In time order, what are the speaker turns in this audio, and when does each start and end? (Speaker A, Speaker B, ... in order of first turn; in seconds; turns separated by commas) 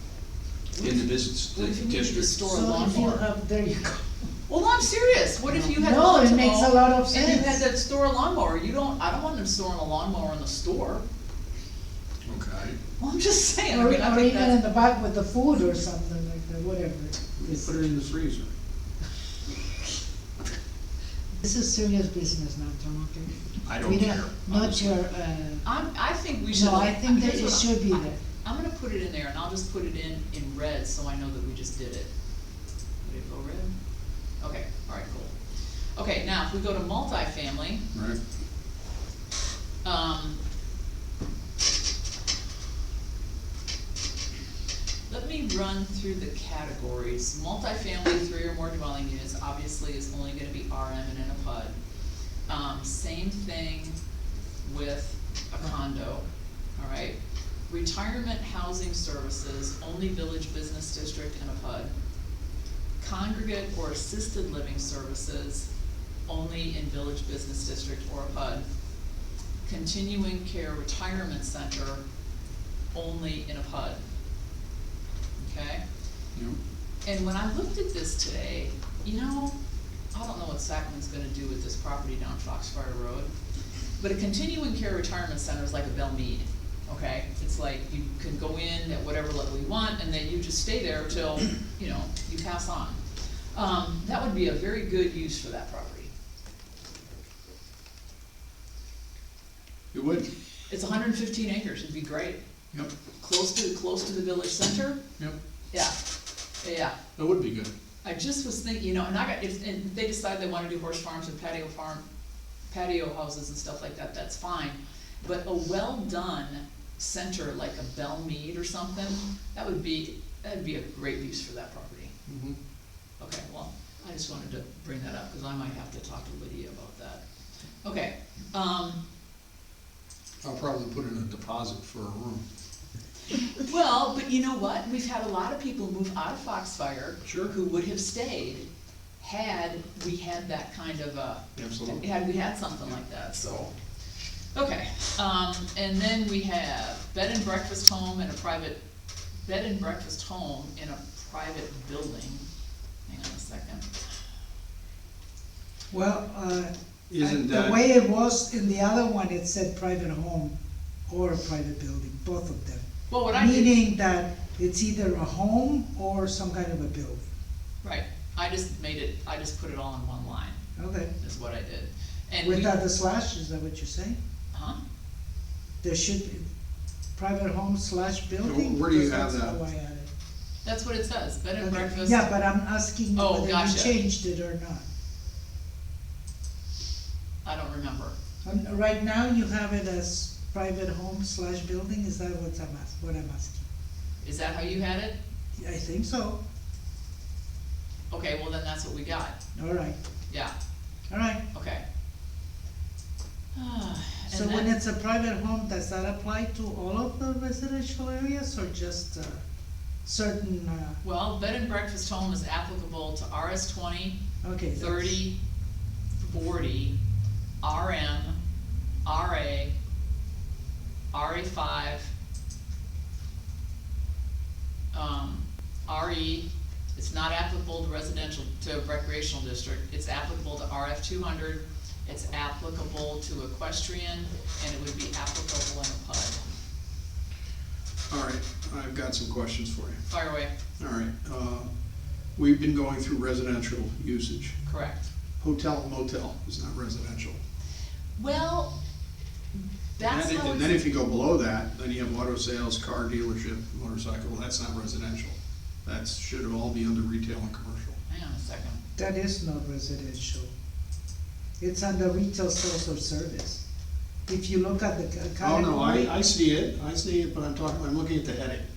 Speaker A: 0.7-3.2, Speaker B: 0.8-2.4, Speaker C: 2.4-4.2, Speaker A: 4.5-11.0, Speaker C: 5.5-7.6, Speaker B: 12.2-12.8, Speaker A: 13.0-14.6, Speaker C: 13.7-17.9, Speaker B: 17.4-18.5, Speaker C: 21.4-25.6, Speaker B: 23.6-25.0, Speaker A: 25.6-32.1, Speaker C: 26.5-28.2, Speaker A: 33.0-33.7, Speaker A: 34.4-35.4, Speaker A: 36.0-37.8, Speaker B: 37.9-38.2, Speaker A: 39.8-40.4, Speaker A: 45.1-51.7, Speaker A: 52.5-54.0, Speaker A: 54.6-56.2, Speaker A: 56.8-57.2, Speaker A: 57.7-61.9, Speaker A: 63.0-65.7, Speaker A: 66.3-68.7, Speaker A: 69.7-72.0, Speaker A: 72.9-74.0, Speaker A: 75.4-75.8, Speaker A: 77.1-79.5, Speaker A: 80.1-83.3, Speaker A: 84.0-93.0, Speaker A: 93.5-96.1, Speaker B: 99.9-100.3, Speaker A: 100.7-102.4, Speaker A: 103.2-105.0, Speaker A: 106.6-107.0, Speaker B: 107.2-107.7, Speaker A: 108.0-112.0, Speaker A: 112.7-122.1, Speaker B: 122.3-122.6, Speaker A: 123.2-127.2, Speaker A: 127.8-129.0, Speaker B: 130.4-132.4, Speaker A: 133.3-138.7, Speaker B: 137.2-137.5, Speaker A: 139.2-143.7, Speaker B: 141.6-142.0, Speaker A: 144.5-148.8, Speaker A: 149.4-152.4, Speaker A: 153.1-154.1, Speaker C: 155.9-160.6, Speaker B: 157.1-157.8, Speaker C: 161.1-167.3, Speaker A: 163.1-163.8, Speaker A: 167.8-170.6, Speaker C: 170.8-171.1, Speaker A: 171.2-172.7, Speaker C: 172.4-174.2, Speaker A: 174.5-174.8, Speaker C: 175.8-176.5, Speaker C: 177.2-180.1, Speaker B: 178.4-179.6, Speaker A: 180.7-182.3, Speaker C: 181.6-184.8, Speaker A: 183.1-184.0, Speaker A: 187.4-188.1, Speaker C: 188.4-193.7, Speaker A: 194.2-195.2, Speaker C: 195.6-196.4, Speaker A: 198.1-199.4, Speaker C: 199.6-200.0, Speaker C: 201.1-201.4, Speaker A: 201.5-201.8, Speaker A: 203.6-204.8, Speaker C: 204.3-209.4, Speaker C: 210.1-211.0, Speaker A: 211.0-214.2, Speaker C: 214.4-215.2, Speaker A: 214.8-215.4, Speaker A: 216.2-216.9, Speaker A: 217.6-218.4, Speaker A: 219.1-219.7, Speaker A: 221.1-222.1, Speaker A: 224.9-236.4, Speaker B: 238.1-240.0, Speaker A: 240.1-240.5, Speaker B: 240.8-241.7, Speaker B: 242.4-244.6, Speaker A: 244.7-245.1, Speaker B: 245.4-247.4, Speaker A: 248.2-248.7, Speaker A: 250.0-250.8, Speaker B: 250.0-258.0, Speaker A: 258.1-258.8, Speaker C: 259.0-260.5, Speaker C: 261.6-263.6, Speaker C: 264.3-266.1, Speaker B: 265.4-268.6